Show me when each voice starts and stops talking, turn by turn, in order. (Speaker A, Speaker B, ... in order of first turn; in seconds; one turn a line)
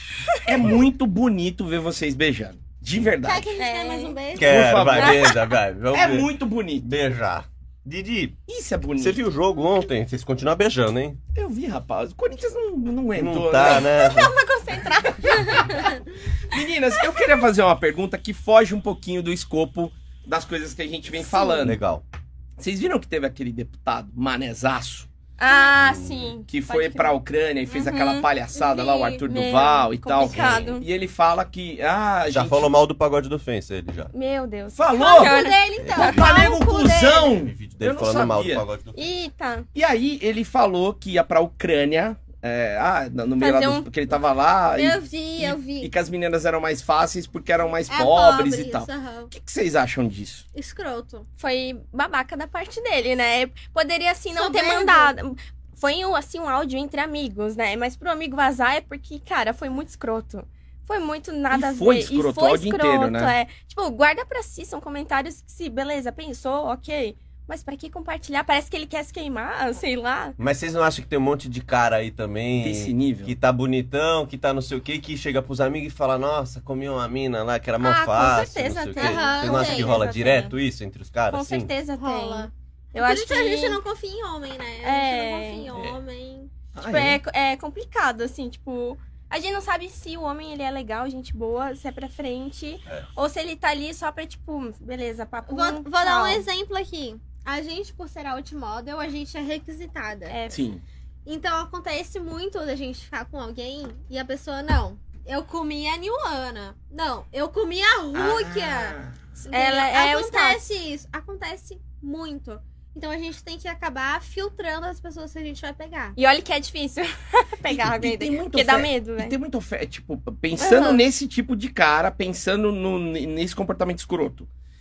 Speaker A: 0.4-3.6
Speaker B: 3.2-4.6
Speaker C: 3.5-4.2
Speaker D: 4.3-8.4
Speaker A: 4.3-5.3
Speaker C: 4.9-5.5
Speaker A: 5.9-6.9
Speaker A: 8.5-9.2
Speaker D: 9.0-11.2
Speaker A: 11.3-13.9
Speaker D: 13.1-14.3
Speaker C: 13.6-15.9
Speaker B: 15.2-15.8
Speaker A: 16.4-21.8
Speaker B: 21.1-21.6
Speaker D: 21.6-22.0
Speaker A: 22.6-25.1
Speaker C: 25.4-27.2
Speaker B: 25.4-25.7
Speaker D: 25.7-26.4
Speaker A: 26.5-32.7
Speaker C: 27.7-28.3
Speaker B: 28.5-29.2
Speaker C: 29.2-30.9
Speaker D: 30.2-30.8
Speaker D: 32.3-34.1
Speaker C: 34.1-36.2
Speaker A: 34.7-35.4
Speaker B: 34.9-37.3
Speaker D: 35.8-36.2
Speaker A: 36.0-38.6
Speaker D: 37.4-39.0
Speaker C: 38.9-39.7
Speaker A: 39.7-50.4
Speaker C: 43.4-43.9
Speaker B: 44.7-45.9
Speaker B: 47.9-49.3
Speaker B: 50.5-51.3
Speaker C: 51.4-70.3
Speaker B: 54.3-55.1
Speaker A: 61.5-63.3
Speaker D: 70.4-81.7
Speaker A: 72.6-73.3
Speaker C: 77.8-80.5
Speaker B: 79.0-80.0
Speaker C: 81.3-83.8
Speaker B: 82.0-86.5
Speaker C: 84.8-85.7
Speaker D: 85.7-86.0
Speaker A: 86.7-87.2
Speaker C: 86.8-96.4
Speaker B: 95.5-100.4
Speaker C: 100.3-100.6
Speaker A: 100.5-100.8
Speaker B: 101.2-116.2
Speaker A: 108.1-109.2
Speaker C: 109.5-110.6
Speaker C: 116.2-119.3
Speaker A: 117.7-124.5
Speaker C: 120.6-121.0